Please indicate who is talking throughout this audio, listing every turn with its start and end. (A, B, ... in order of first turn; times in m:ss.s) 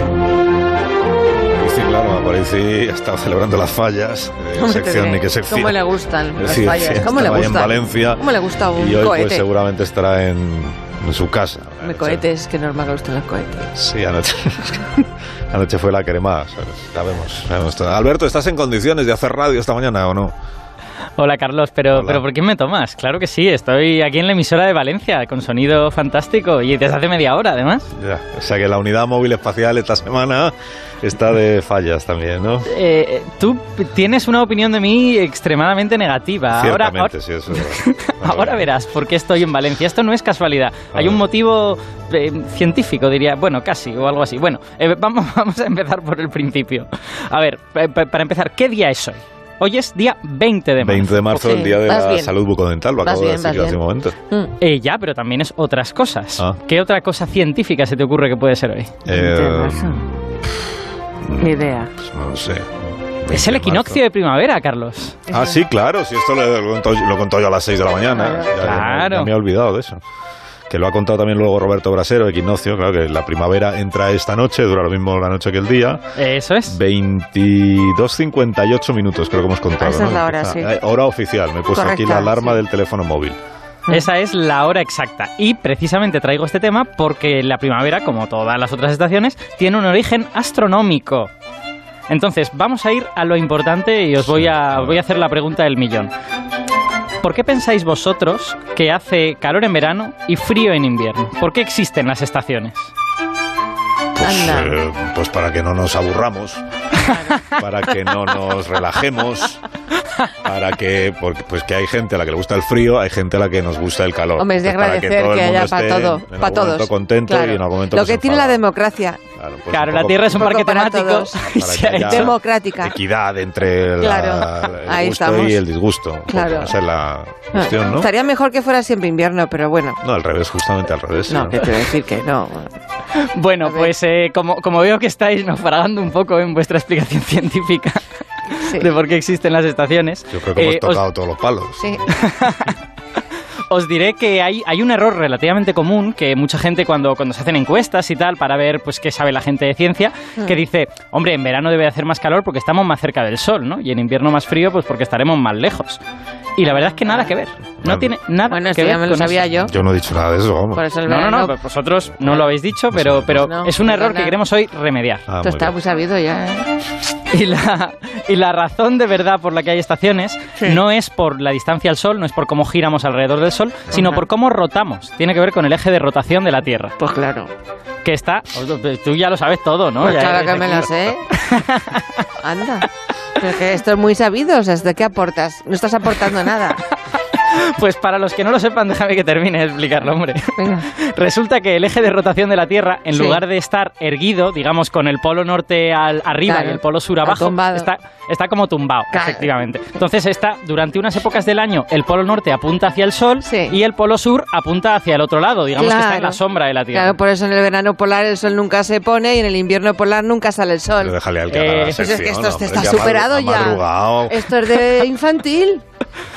0:01.6-0:05.8 A
0:04.6-0:09.4 B
0:06.4-0:12.2 A
0:11.8-0:13.7 B
0:13.7-0:20.3 A
0:21.2-0:27.9 C
0:21.9-0:22.2 A
0:27.9-0:32.7 A
0:32.7-0:51.7 C
0:36.5-0:38.7 A
0:40.9-0:41.2 A
0:50.8-0:54.2 A
0:51.4-0:52.3 B
0:53.0-0:54.5 B
0:54.6-0:58.9 C
0:59.0-1:00.7 A
0:59.1-1:00.0 B
1:01.2-1:04.0 A
1:01.4-1:01.9 B
1:03.3-1:05.2 C
1:05.3-1:05.6 B
1:05.3-1:10.0 A
1:08.2-1:08.5 B
1:08.6-1:09.3 C
1:10.7-1:16.0 A
1:16.2-1:16.8 C
1:16.7-1:23.4 A
1:19.8-1:20.7 B
1:21.7-1:22.6 B
1:23.9-1:31.3 C
1:32.1-1:36.1 C
1:34.2-1:35.0 A
1:37.2-1:42.9 C
1:44.2-1:46.6 A
1:44.2-1:44.8 B
1:47.1-1:47.4 B
1:47.4-1:49.6 A
1:50.4-1:58.6 A
1:54.4-1:59.2 B
1:59.4-2:00.5 A
1:59.7-2:02.3 C
2:00.3-2:01.4 B
2:01.5-2:08.1 A
2:02.1-2:03.0 B
2:04.0-2:05.6 B
2:06.3-2:06.7 B
2:07.5-2:10.0 B
2:10.0-2:11.6 A
2:11.3-2:12.8 B
2:13.1-2:21.0 C
2:13.6-2:13.9 B
2:18.5-2:18.9 B
2:20.3-2:22.0 A
2:21.8-2:22.0 B
2:22.1-2:22.8 C
2:23.7-2:36.0 C
2:36.6-2:39.5 C
2:36.7-2:37.3 B
2:37.8-2:38.1 A
2:38.5-2:39.7 B
2:39.6-2:40.8 A
2:40.7-2:41.6 B
2:41.0-2:45.2 C
2:42.3-2:42.5 B
2:42.9-2:43.5 A
2:43.4-2:44.4 B
2:45.3-2:45.8 A
2:45.4-2:46.7 B
2:47.3-2:57.0 C
2:53.9-2:54.2 B
2:57.0-2:57.5 B
2:58.0-3:02.2 C
3:00.0-3:01.3 B
3:02.4-3:02.9 B
3:03.4-3:06.8 B
3:07.4-3:27.2 C
3:10.6-3:10.9 B
3:13.1-3:13.4 B
3:16.4-3:17.9 B
3:19.1-3:19.5 B
3:23.4-3:23.8 B
3:25.8-3:26.4 B
3:26.9-3:31.1 B
3:31.0-3:34.5 A
3:31.5-3:32.0 C
3:31.7-3:35.8 B